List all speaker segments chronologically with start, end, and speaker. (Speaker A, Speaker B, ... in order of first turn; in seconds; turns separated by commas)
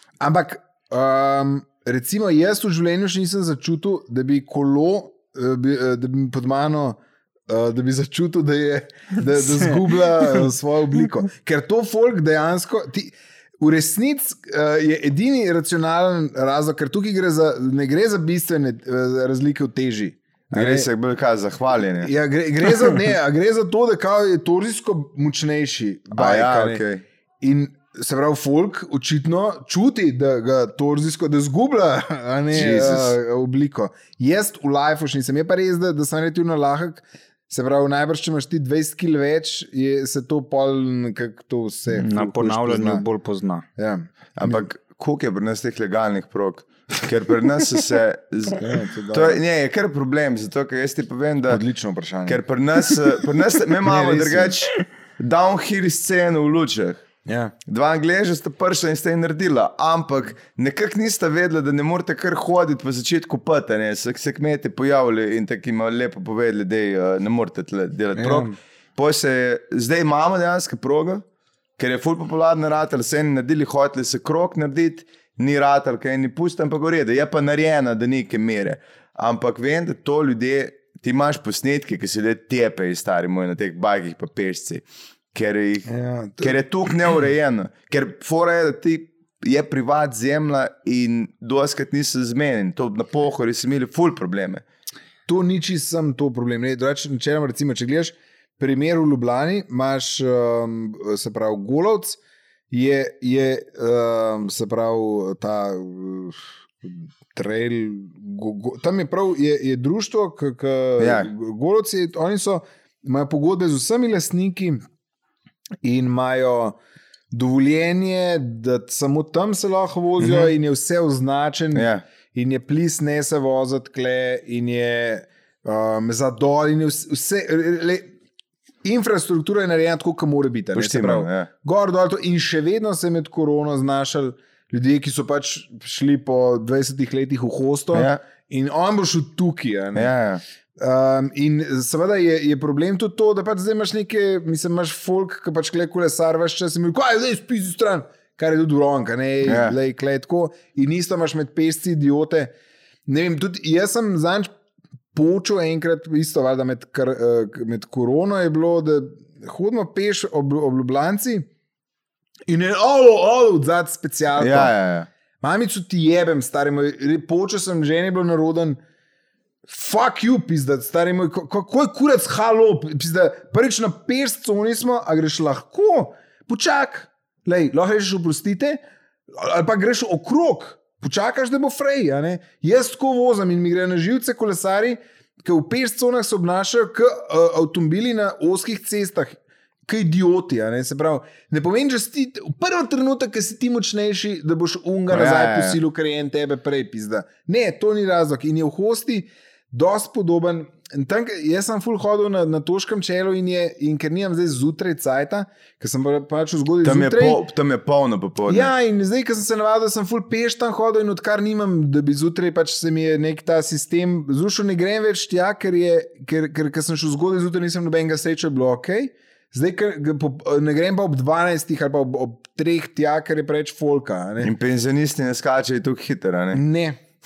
Speaker A: 0.2-20.9, Speaker B: 9.5-10.5, Speaker C: 20.5-22.1, Speaker A: 22.0-26.8, Speaker C: 26.1-27.0, Speaker A: 27.4-43.0, Speaker C: 32.5-33.1, Speaker B: 41.9-43.6, Speaker A: 43.8-44.7, Speaker C: 44.4-51.6, Speaker A: 48.5-49.4, Speaker A: 51.5-52.4, Speaker C: 52.2-57.0, Speaker A: 53.8-54.6, Speaker A: 57.2-57.5, Speaker C: 57.7-71.2, Speaker A: 68.1-68.5, Speaker C: 71.8-85.9, Speaker A: 85.9-86.6, Speaker C: 86.4-94.6, Speaker A: 95.3-102.2, Speaker A: 102.7-114.8, Speaker C: 111.0-111.3, Speaker A: 115.8-116.8, Speaker A: 117.3-128.1, Speaker C: 120.2-120.5, Speaker C: 121.7-122.0, Speaker A: 128.8-140.1, Speaker C: 130.7-131.5, Speaker C: 137.9-138.2, Speaker C: 139.9-140.4, Speaker A: 140.8-152.5, Speaker C: 149.4-149.8, Speaker A: 153.1-154.5, Speaker A: 155.1-161.5, Speaker A: 162.5-164.7, Speaker C: 164.4-165.1, Speaker A: 165.4-168.8, Speaker A: 169.7-207.4, Speaker C: 195.1-195.8, Speaker C: 206.8-208.7, Speaker A: 208.5-224.5, Speaker C: 224.4-226.6, Speaker A: 226.5-227.0